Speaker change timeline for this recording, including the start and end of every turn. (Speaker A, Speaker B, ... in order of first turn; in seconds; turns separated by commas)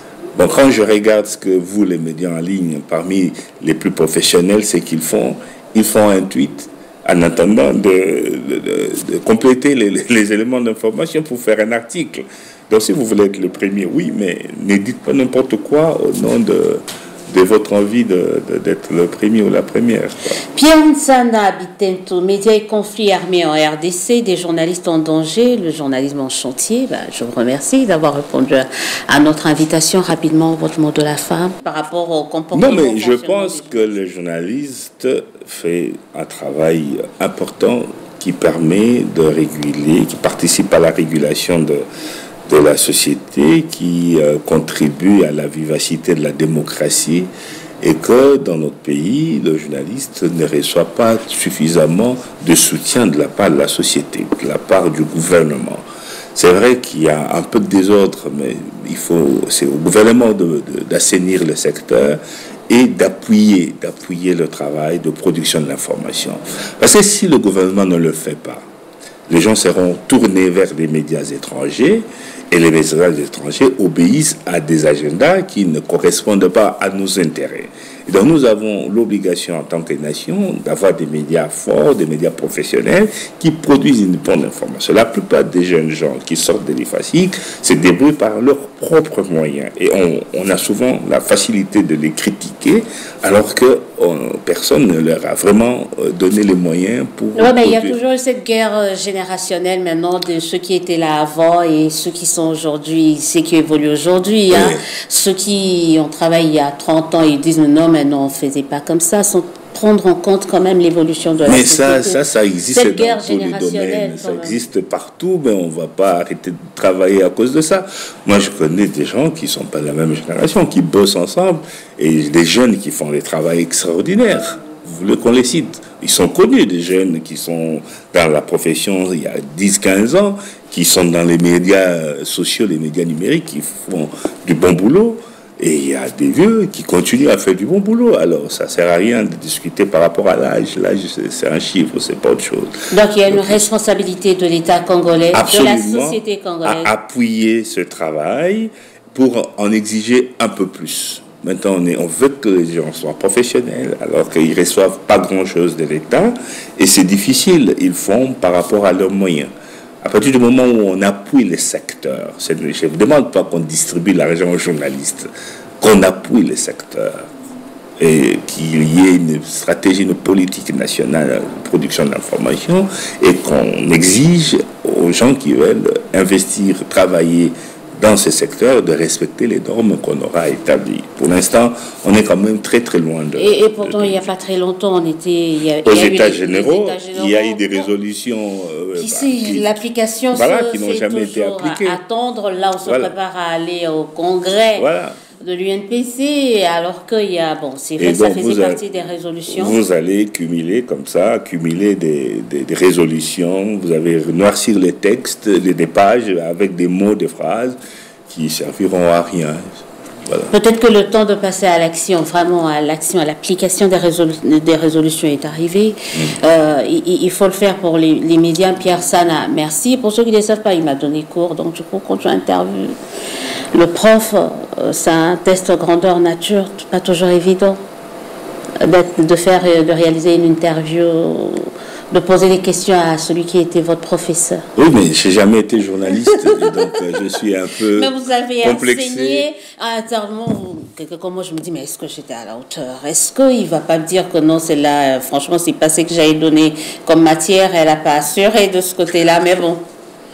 Speaker A: 0.3-20.4, Speaker B: 20.5-33.9, Speaker A: 32.5-41.8, Speaker A: 42.5-47.3, Speaker A: 47.8-55.8, Speaker A: 56.3-68.6, Speaker A: 69.3-98.0, Speaker B: 97.3-112.2, Speaker A: 104.5-104.8, Speaker A: 111.5-143.7, Speaker B: 112.7-114.6, Speaker B: 142.9-146.9, Speaker A: 145.3-159.5, Speaker A: 160.0-165.3, Speaker A: 165.8-167.3, Speaker A: 168.0-184.3, Speaker B: 183.3-187.9, Speaker A: 185.8-189.8, Speaker B: 188.9-194.9, Speaker A: 190.3-192.0, Speaker A: 192.8-193.1, Speaker A: 194.8-195.2, Speaker B: 195.4-199.8, Speaker A: 198.0-198.8, Speaker A: 199.5-207.8, Speaker A: 208.3-209.7, Speaker A: 210.2-210.5, Speaker B: 210.5-223.0, Speaker B: 223.7-227.8, Speaker B: 228.8-234.7, Speaker A: 234.8-239.4, Speaker B: 236.3-237.0, Speaker B: 237.9-249.8